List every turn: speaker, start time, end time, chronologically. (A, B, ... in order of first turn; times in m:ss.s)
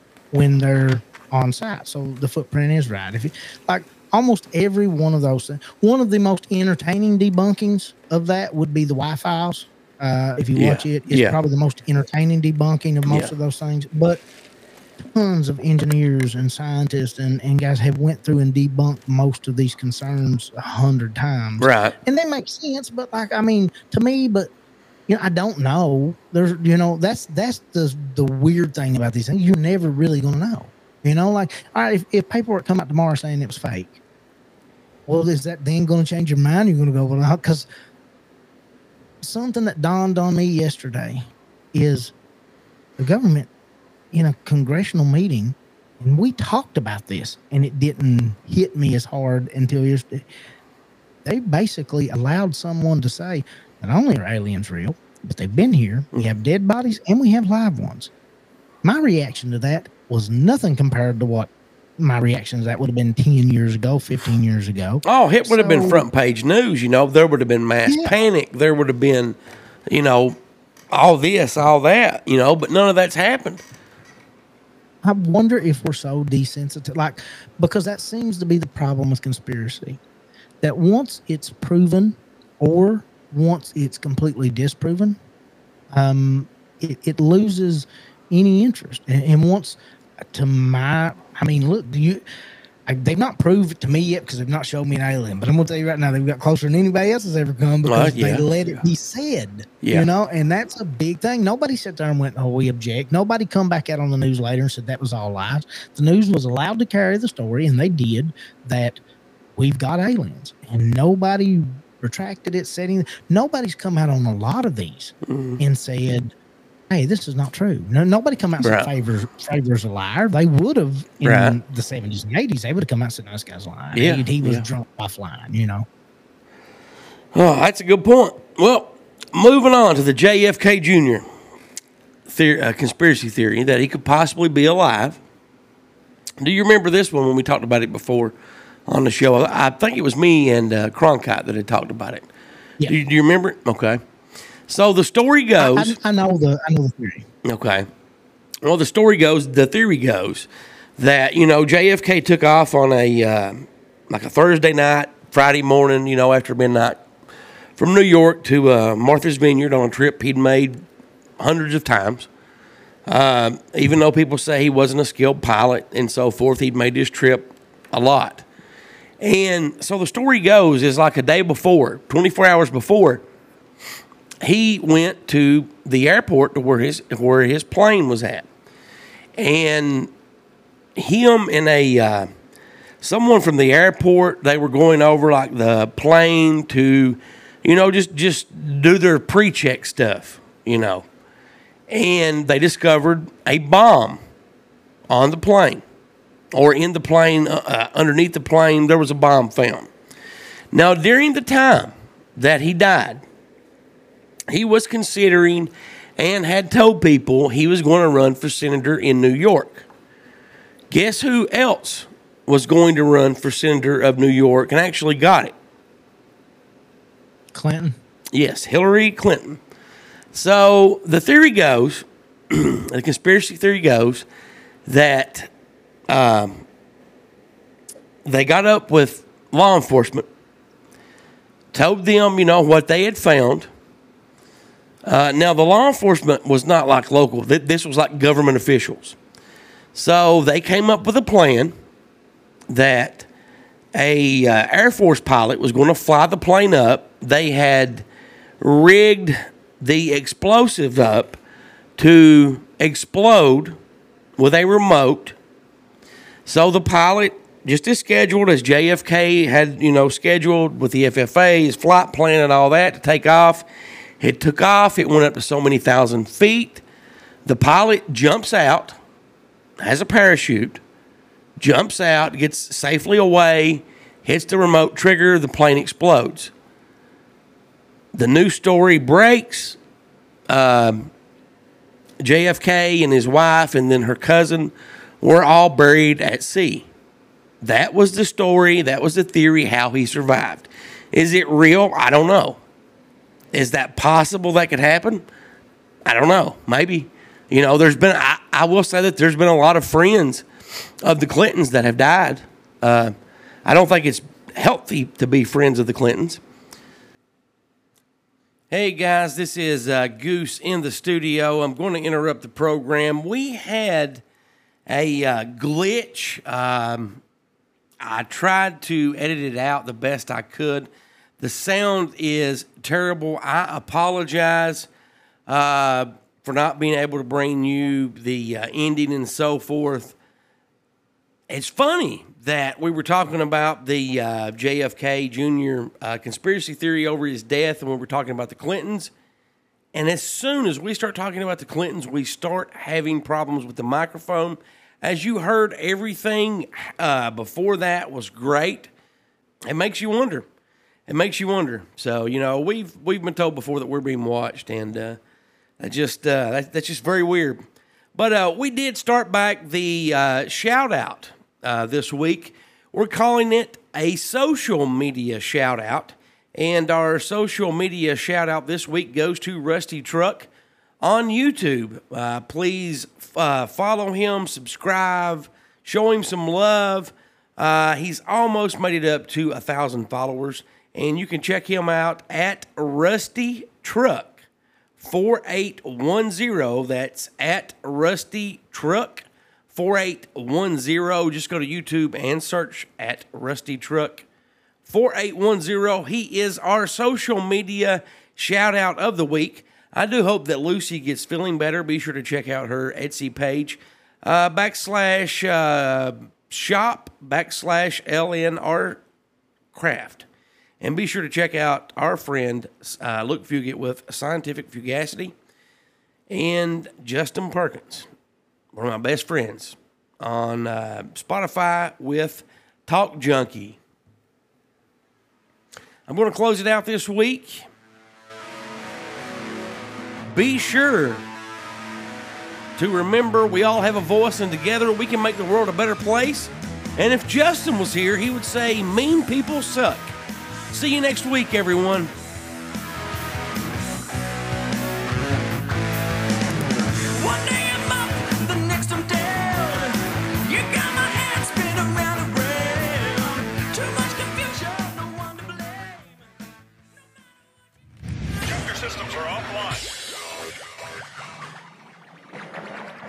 0:00.3-0:14.2 A
0:10.6-0:11.4 B
0:15.1-0:24.5 A
0:21.6-0:22.0 B
0:25.1-0:34.0 A
0:35.1-0:37.7 A
0:39.2-0:42.1 A
0:43.0-0:43.5 A
0:44.1-0:50.3 A
0:51.2-0:58.1 A
0:58.8-1:06.1 A
1:05.0-1:09.4 B
1:07.9-1:08.2 A
1:09.9-1:10.4 B
1:10.9-1:13.6 B
1:15.0-1:20.0 A
1:20.6-1:25.2 A
1:25.9-1:29.8 A
1:30.3-1:32.2 A
1:32.9-1:49.0 A
1:37.8-1:38.5 B
1:39.8-1:40.1 B
1:49.6-1:56.3 A
1:55.3-1:55.6 B
1:56.9-2:05.9 A
1:58.6-1:58.9 B
2:01.2-2:01.6 B
2:03.9-2:04.7 B
2:07.3-2:11.3 B
2:12.3-2:15.2 B
2:16.4-2:18.4 B
2:18.9-2:22.3 B
2:22.8-2:24.0 B
2:24.7-2:26.0 B
2:25.6-2:27.3 A
2:27.4-2:27.9 B
2:28.6-2:37.0 B
2:37.8-2:40.8 B
2:41.4-2:42.3 B
2:43.1-2:48.4 B
2:49.2-2:53.2 B
2:54.4-2:58.5 B
2:59.4-3:00.1 B
3:01.0-3:02.3 B
3:03.0-3:11.0 B
3:11.9-3:14.2 B
3:15.1-3:15.8 B
3:16.5-3:19.9 B
3:20.7-3:23.2 B
3:24.5-3:29.9 B
3:30.9-3:35.5 B
3:37.5-3:38.0 A
3:38.3-3:39.6 B
3:40.3-3:44.3 B
3:44.9-3:45.5 B
3:46.1-3:46.6 B
3:48.2-3:50.3 B
3:51.7-3:53.7 B
3:55.0-3:59.2 B
3:59.9-4:01.7 B
4:02.7-4:03.3 B
4:03.9-4:08.0 B
4:08.6-4:11.4 B
4:12.0-4:13.8 B
4:14.4-4:15.4 B
4:16.5-4:23.7 B
4:24.2-4:26.8 B
4:27.4-4:29.0 B
4:29.8-4:30.8 B
4:31.6-4:36.5 B
4:38.1-4:39.8 B
4:40.5-4:41.1 B
4:42.2-4:46.9 B
4:47.6-4:52.6 B
4:53.5-4:55.2 B
4:56.0-5:00.4 B
5:01.0-5:06.4 B
5:08.7-5:14.2 B
5:14.9-5:17.2 B
5:18.0-5:24.9 B
5:25.5-5:30.2 B
5:31.5-5:39.1 B
5:39.9-5:48.9 B
5:49.7-5:50.5 B
5:51.1-5:55.2 B
5:55.8-5:57.6 B
5:58.2-6:10.5 B
6:11.0-6:24.4 B
6:25.0-6:34.3 B
6:34.9-6:49.0 B
6:49.7-6:50.2 B
6:50.8-6:55.3 B
6:56.3-6:58.1 B
6:58.7-7:03.8 B
7:06.1-7:07.7 B
7:10.3-7:11.2 B
7:12.8-7:20.2 B
7:20.7-7:22.1 B
7:27.2-7:27.9 B
7:27.5-7:30.0 C
7:30.5-7:33.1 C
7:30.6-7:31.6 B
7:33.7-7:35.9 C